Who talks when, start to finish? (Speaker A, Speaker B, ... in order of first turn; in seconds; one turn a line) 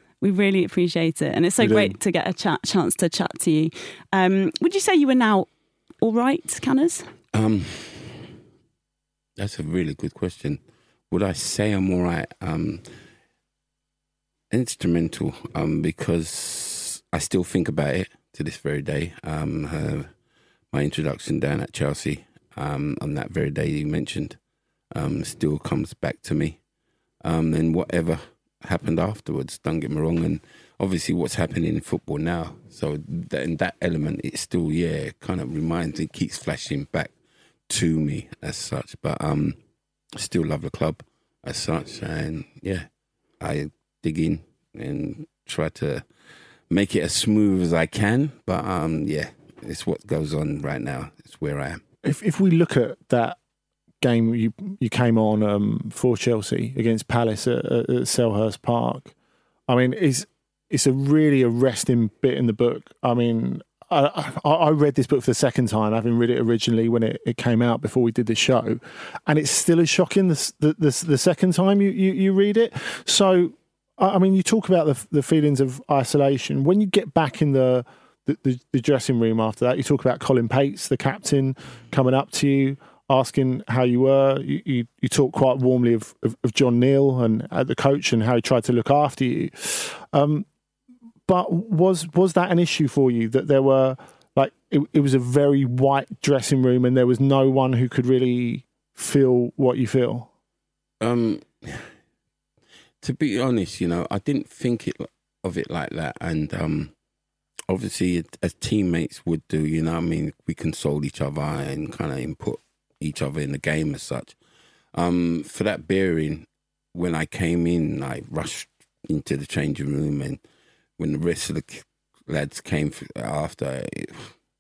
Speaker A: 0.2-5.5
Speaker B: 1.6-1.9
Speaker A: 6.0-7.1
Speaker B: 7.3-8.3
Speaker B: 9.4-12.8
Speaker B: 14.5-20.1
Speaker B: 20.7-24.4
Speaker B: 24.9-26.6
Speaker B: 27.2-37.1
Speaker B: 37.7-39.6
Speaker B: 40.1-42.9
Speaker B: 43.4-46.1
Speaker B: 46.7-51.8
Speaker C: 52.0-53.4
Speaker C: 54.0-59.1
Speaker C: 59.7-90.5
Speaker C: 91.3-100.3
Speaker B: 101.0-101.9
Speaker B: 103.0-106.9
Speaker B: 107.7-114.3
Speaker B: 114.9-120.4
Speaker B: 121.0-124.3